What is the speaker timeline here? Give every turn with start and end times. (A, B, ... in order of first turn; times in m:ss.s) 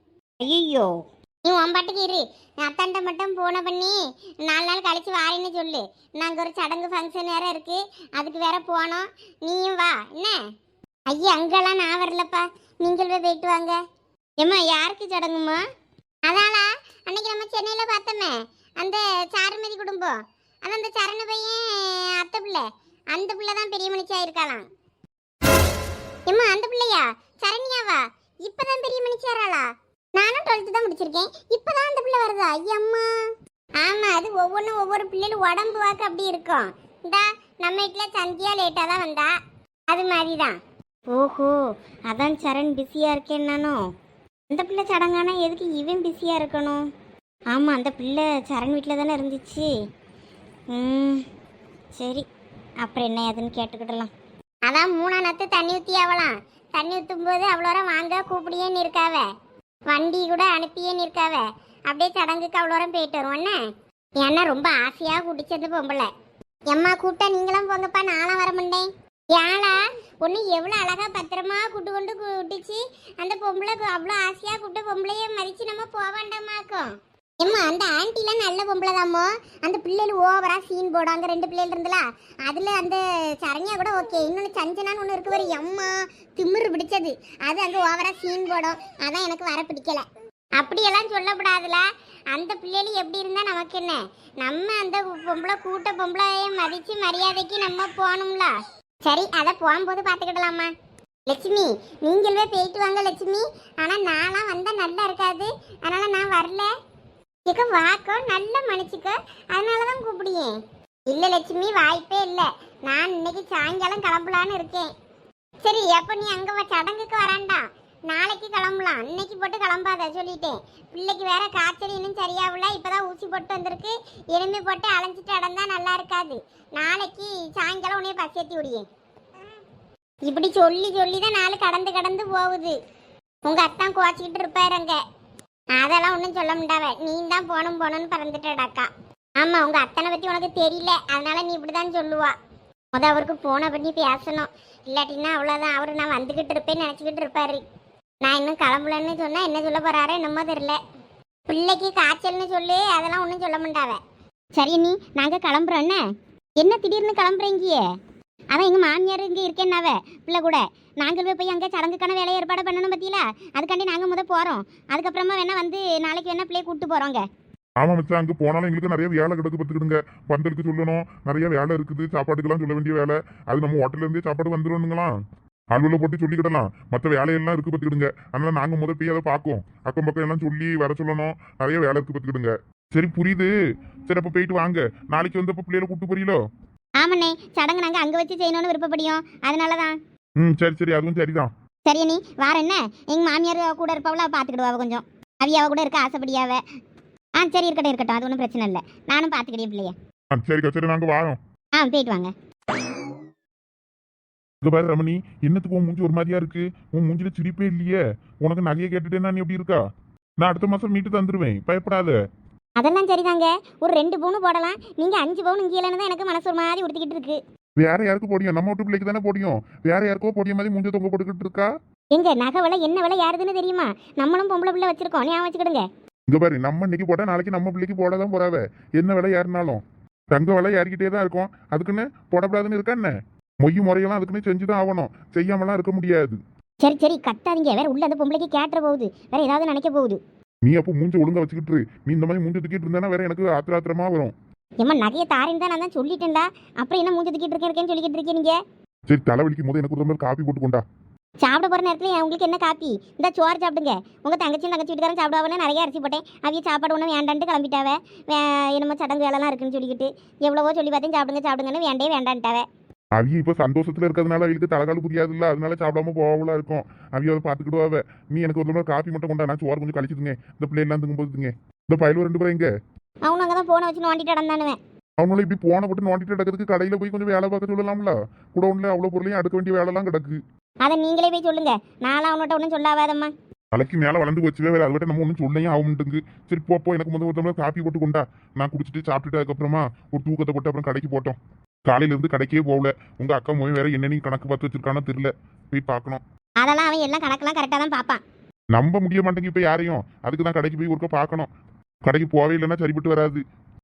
0:00.4-0:00.9 A
0:01.4-0:10.4 B
0:11.1-0:13.8 B
0:14.4-0:15.6 A
0:16.3-0:24.6 B
0:26.3-0:33.1 B
0:33.8-0:39.3 B
0:39.9-0:40.6 B
0:41.1-0:43.8 A
0:44.5-0:46.8 A
0:47.5-0:49.7 A
0:50.7-0:51.2 A
0:52.0-0:52.2 A
0:52.8-0:54.1 A
0:54.7-0:59.3 B
0:59.9-1:03.6 B
1:04.2-1:06.1 B
1:06.7-1:30.0 B
1:30.6-1:40.7 B
1:41.3-1:46.7 B
1:47.5-1:50.6 B
1:51.1-1:54.9 B
1:55.6-2:08.9 B
2:10.3-2:12.8 B
2:13.4-2:15.0 B
2:15.8-2:22.4 B
2:23.0-2:27.6 B
2:28.2-2:30.8 B
2:31.5-2:34.0 B
2:34.6-2:36.0 A
2:36.6-2:37.8 A
2:38.5-2:47.2 A
2:47.8-2:55.1 C
2:55.7-3:03.5 C
3:04.1-3:06.4 C
3:07.0-3:10.0 A
3:10.4-3:11.5 C
3:11.9-3:16.6 A
3:17.4-3:19.9 A
3:20.3-3:21.4 C
3:21.8-3:22.3 A
3:24.6-3:29.8 C
3:30.4-3:32.2 C
3:32.8-3:37.4 A
3:37.8-3:41.7 C
3:42.1-3:45.8 A
3:46.3-3:56.4 C
3:56.8-4:00.2 A
4:00.6-4:04.3 C
4:04.8-4:08.6 A
4:09.1-4:10.8 C
4:11.4-4:22.6 A
4:23.2-4:32.7 C
4:33.2-4:34.8 A
4:35.2-4:40.4 C
4:40.8-4:43.3 A
4:43.7-4:51.4 C
4:51.9-4:56.2 C
4:56.6-4:58.2 A
4:58.7-5:01.5 C
5:02.0-5:03.4 C